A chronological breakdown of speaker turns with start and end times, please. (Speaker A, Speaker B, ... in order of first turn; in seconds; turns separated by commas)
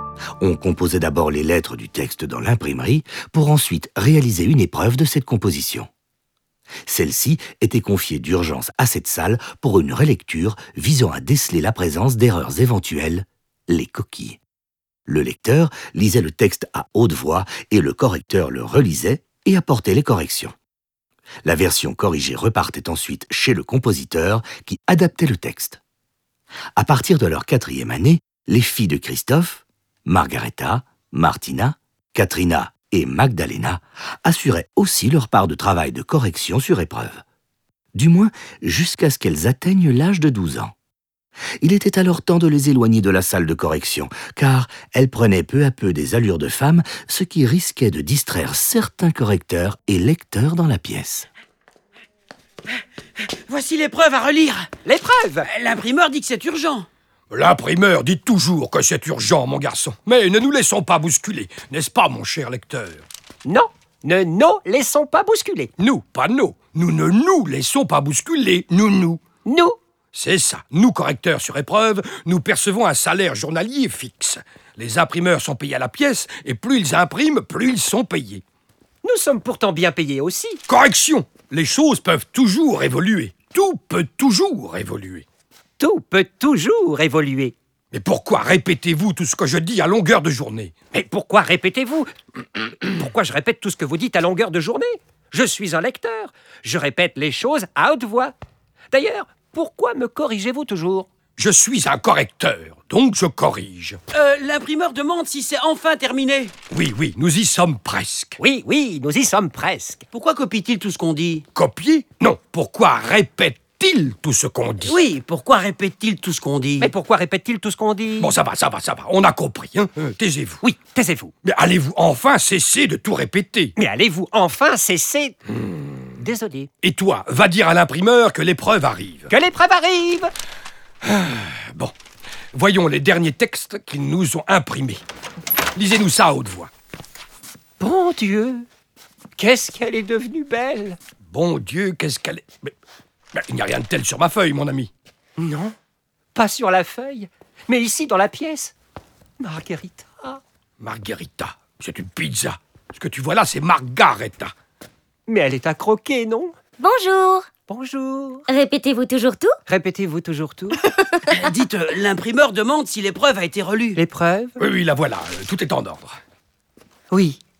Speaker A: 0.4-5.9, Speaker A: 6.9-14.4, Speaker A: 15.1-20.6, Speaker A: 21.4-25.8, Speaker A: 26.8-37.2, Speaker A: 37.9-40.7, Speaker A: 41.6-51.3, Speaker B: 53.2-54.7, Speaker C: 54.9-55.5, Speaker B: 55.4-56.9, Speaker D: 57.3-63.1, Speaker C: 63.5-65.7, Speaker D: 65.8-69.2, Speaker C: 69.5-69.8, Speaker D: 70.1-78.4, Speaker C: 79.0-80.6, Speaker D: 80.7-85.3, Speaker C: 85.8-87.5, Speaker D: 87.9-90.8, Speaker C: 90.9-92.1, Speaker C: 92.6-98.3, Speaker C: 98.9-101.1, Speaker D: 101.4-104.0, Speaker B: 104.1-106.5, Speaker D: 106.7-108.4, Speaker C: 108.4-110.1, Speaker B: 110.1-111.5, Speaker D: 111.5-115.0, Speaker B: 114.8-116.9, Speaker C: 116.8-118.4, Speaker D: 118.2-120.6, Speaker C: 120.6-121.3, Speaker D: 121.4-123.7, Speaker C: 123.8-126.7, Speaker D: 126.8-129.3, Speaker C: 129.3-130.3, Speaker D: 131.0-131.9, Speaker D: 132.5-135.0, Speaker D: 135.8-136.7, Speaker C: 137.8-138.7, Speaker C: 139.4-141.0, Speaker D: 141.3-142.7, Speaker D: 143.3-144.9, Speaker C: 145.4-145.7, Speaker C: 146.3-148.7, Speaker C: 149.4-150.4, Speaker D: 150.8-154.5, Speaker C: 155.3-156.6, Speaker E: 156.8-157.5, Speaker C: 157.7-158.5, Speaker E: 158.5-159.6, Speaker C: 159.7-160.8, Speaker E: 160.9-161.2, Speaker B: 161.3-164.0, Speaker C: 164.0-164.6, Speaker D: 164.6-166.2, Speaker C: 167.1-167.4